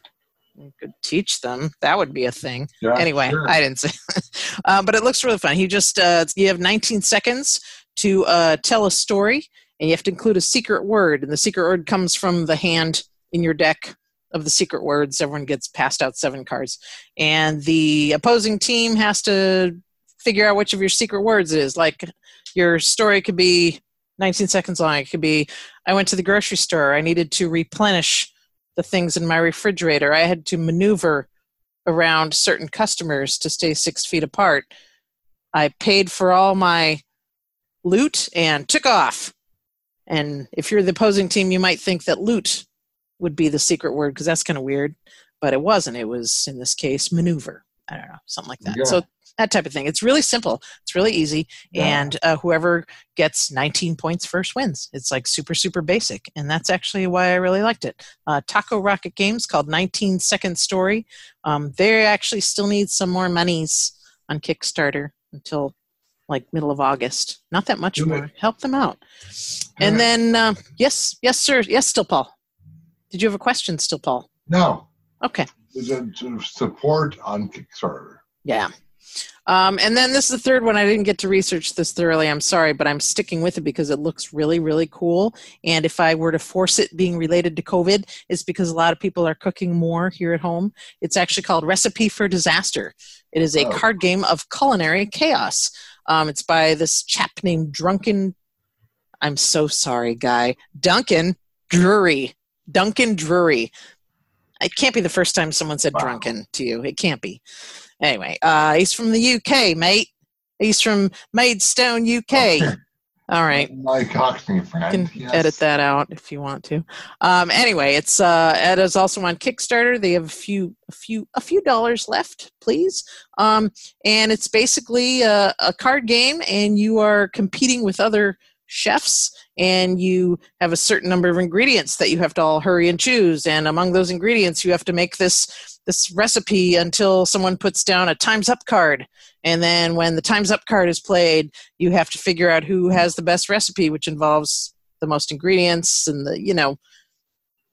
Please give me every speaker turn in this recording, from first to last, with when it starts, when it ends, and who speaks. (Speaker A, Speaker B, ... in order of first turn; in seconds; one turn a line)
Speaker A: 0.6-31.3
Speaker B: 2.8-3.6
Speaker A: 31.9-34.7
Speaker A: 35.5-37.0
Speaker A: 37.8-39.3
Speaker A: 40.1-42.6
Speaker A: 43.2-65.7
Speaker B: 48.6-49.0
Speaker B: 51.7-52.1
Speaker A: 66.3-69.0
Speaker B: 68.0-68.3
Speaker A: 69.8-72.3
Speaker B: 69.8-70.1
Speaker A: 73.1-74.3
Speaker B: 74.5-74.9
Speaker A: 75.2-75.5
Speaker B: 75.7-78.2
Speaker A: 78.5-78.7
Speaker A: 79.5-98.3
Speaker B: 93.5-93.9
Speaker A: 99.2-103.7
Speaker A: 104.6-107.4
Speaker B: 105.9-106.3
Speaker A: 108.0-110.1
Speaker A: 110.6-112.8
Speaker B: 112.3-112.8
Speaker A: 113.3-113.7
Speaker B: 113.5-115.6
Speaker A: 114.9-146.8